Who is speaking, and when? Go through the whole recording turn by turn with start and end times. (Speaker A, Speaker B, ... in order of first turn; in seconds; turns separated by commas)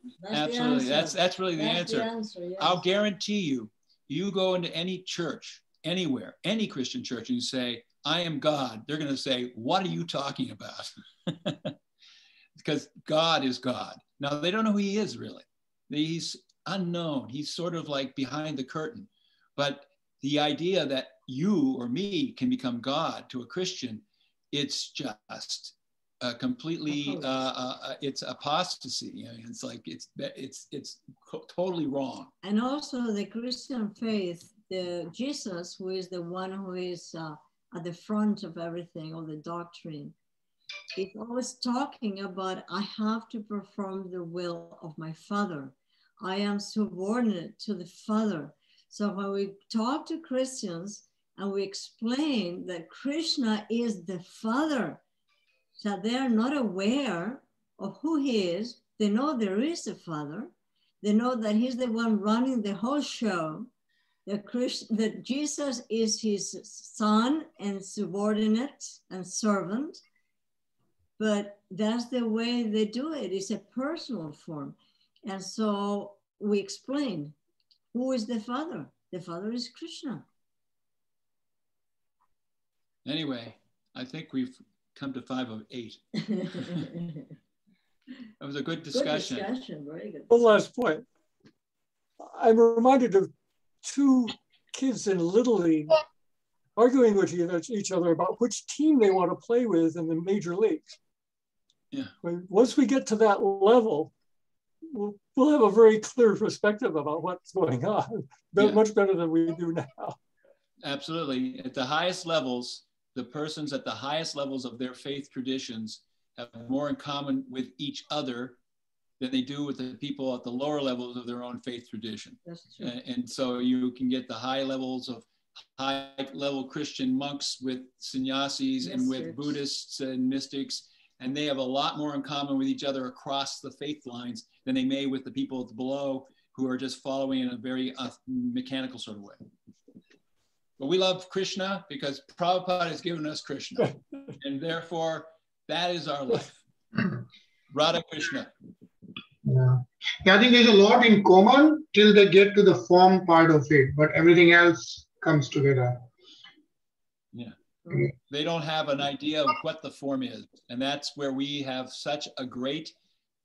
Speaker A: 0.2-2.9, Speaker B: 0.3-11.7, Speaker B: 12.6-32.3, Speaker A: 26.9-27.4, Speaker A: 32.4-40.1, Speaker A: 40.9-55.0, Speaker A: 55.8-63.7, Speaker A: 64.3-70.0, Speaker A: 71.2-77.3, Speaker A: 77.9-80.3, Speaker B: 83.0-86.0, Speaker A: 86.2-87.3, Speaker B: 86.5-86.9, Speaker B: 88.4-89.5, Speaker A: 88.9-90.6, Speaker C: 90.3-91.0, Speaker C: 92.2-93.3, Speaker C: 93.8-96.0, Speaker C: 96.8-101.0, Speaker C: 102.2-104.1, Speaker C: 104.9-110.2, Speaker B: 110.8-118.6, Speaker B: 119.2-139.4, Speaker A: 122.4-122.9, Speaker A: 128.8-129.6, Speaker B: 140.8-146.6, Speaker C: 143.8-144.3, Speaker B: 147.7-148.5, Speaker D: 149.4-156.0, Speaker B: 158.2-162.9